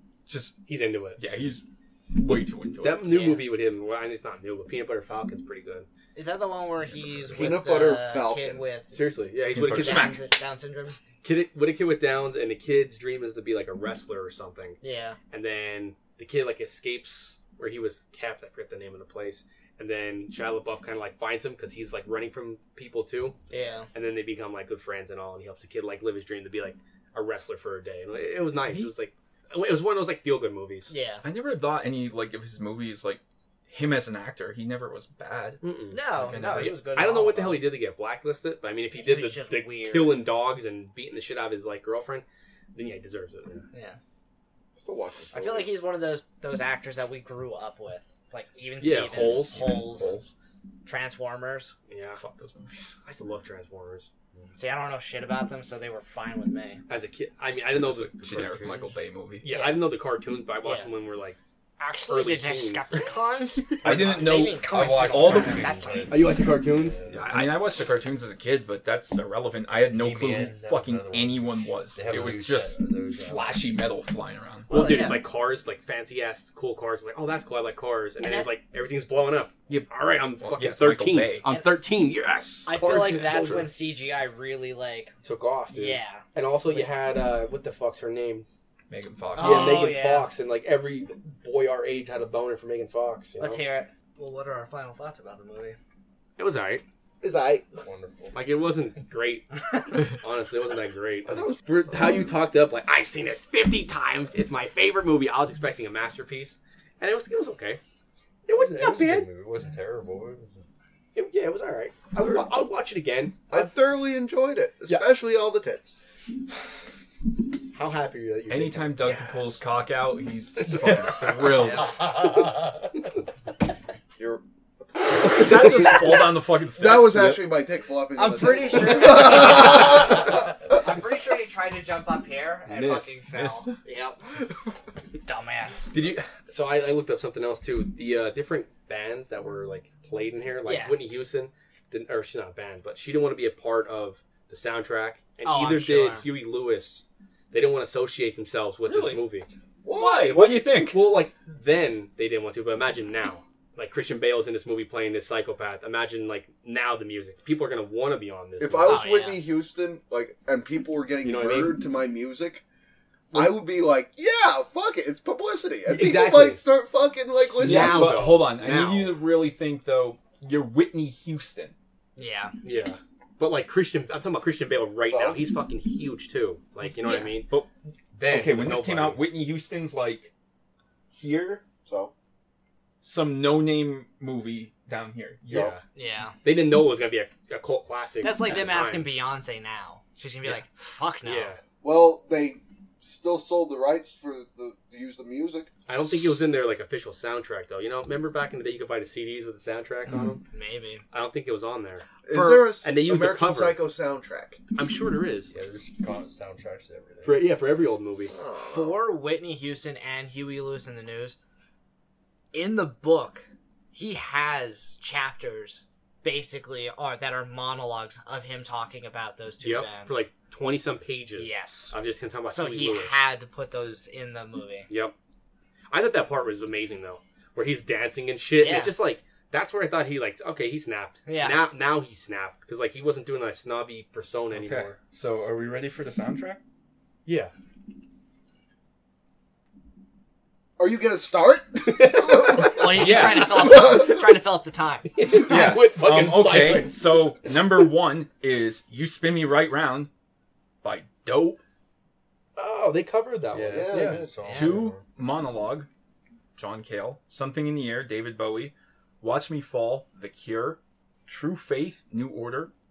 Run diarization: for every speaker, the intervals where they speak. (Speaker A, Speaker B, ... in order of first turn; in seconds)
Speaker A: 0.3-0.6, 1.2-3.1, 9.5-10.3, 28.6-28.9, 31.2-36.8, 49.1-50.3, 52.1-53.0, 57.7-59.5, 63.8-65.7, 67.1-75.1, 80.4-81.5, 83.3-83.6, 88.9-89.9, 118.5-122.0, 125.2-127.6, 132.7-133.8, 148.9-149.2, 149.9-151.2, 167.6-171.7, 176.8-177.7, 178.2-180.3, 181.1-181.6, 183.0-185.7, 234.5-236.6, 242.8-243.8, 245.3-250.1, 250.8-251.6, 254.5-255.9, 256.6-262.7
Speaker B: 0.7-1.2, 2.8-5.9, 8.9-10.1, 11.2-14.8, 15.3-30.9, 35.6-43.6, 48.8-49.7, 51.9-52.2, 53.0-54.1, 56.9-58.6, 59.4-61.4, 61.9-63.0, 63.9-64.2, 66.1-67.7, 74.7-83.8, 85.2-88.5, 89.4-93.6, 96.4-96.8, 98.3-107.8, 108.5-109.3, 111.1-113.7, 117.7-119.6, 120.6-121.2, 135.9-149.5, 150.3-159.1, 161.2-161.8, 165.9-166.6, 167.6-169.2, 172.6-177.5, 178.1-179.2, 185.5-185.8, 186.4-189.1, 191.2-191.6, 195.9-200.4, 201.1-203.8, 204.7-205.5, 207.2-208.3, 219.6-223.2, 224.9-225.1, 225.9-235.0, 237.2-237.5, 241.8-242.9, 245.1-247.5, 252.6-254.2
Speaker C: 3.0-3.5, 6.1-8.9, 9.7-11.0, 14.8-15.2, 23.5-23.9, 30.9-31.2, 35.9-37.6, 38.9-40.2, 43.7-44.0, 45.3-50.2, 50.8-51.7, 54.5-56.8, 59.4-59.9, 60.6-60.9, 61.8-66.3, 74.7-75.2, 78.2-78.5, 82.7-85.1, 85.7-86.9, 89.3-90.3, 93.4-95.8, 128.1-134.2, 135.2-135.9, 140.6-141.0, 145.4-146.2, 158.8-159.5, 172.2-172.5, 185.9-186.3, 188.2-191.5, 200.5-201.0, 208.6-211.4, 212.5-220.2, 221.4-221.9, 222.5-224.9, 228.6-228.9, 231.2-231.6, 242.6-245.1
Speaker D: 7.3-8.6, 44.8-45.7, 97.2-97.7, 101.2-102.2, 113.5-116.0, 124.2-126.2, 126.7-130.3, 149.8-150.4, 158.6-162.6, 163.3-168.2, 175.0-175.4, 181.8-182.1, 185.5-185.7, 191.8-195.7, 202.2-204.6, 208.3-209.0, 240.8-244.4, 253.7-254.6
Speaker E: 58.3-58.9, 64.5-67.4, 69.9-73.7, 97.8-98.4, 108.5-110.6, 205.5-207.5, 253.5-255.0